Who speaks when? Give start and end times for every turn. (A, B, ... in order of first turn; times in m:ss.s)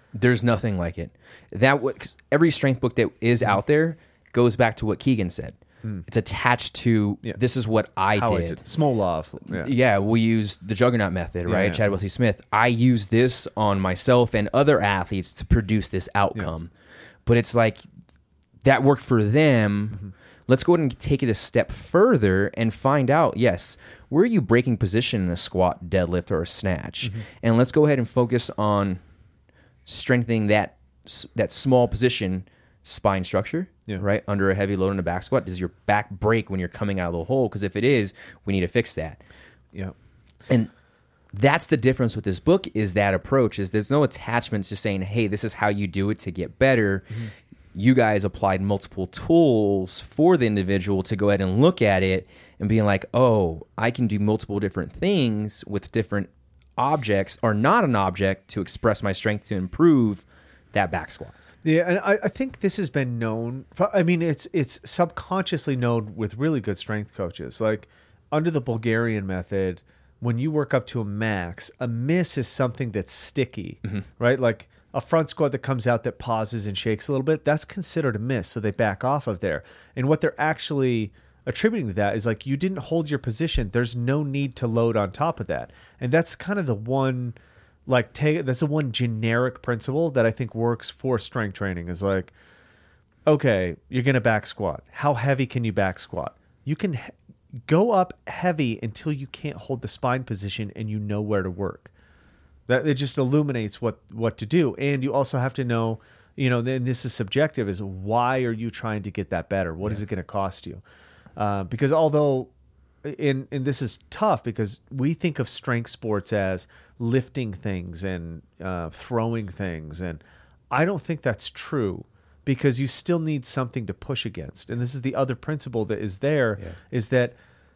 0:00.1-0:08.6 A
0:08.1-0:09.7 B
0:09.4-0:16.7 A
0:11.5-0:11.8 B
0:17.3-0:17.8 A
0:18.6-0:29.0 A
0:29.9-0:39.2 A
0:41.3-1:01.4 A
1:01.6-1:32.3 B
1:33.3-1:37.2 B
1:37.7-1:41.9 B
1:42.7-1:50.8 B
1:51.4-1:52.5 B
1:53.0-2:07.4 B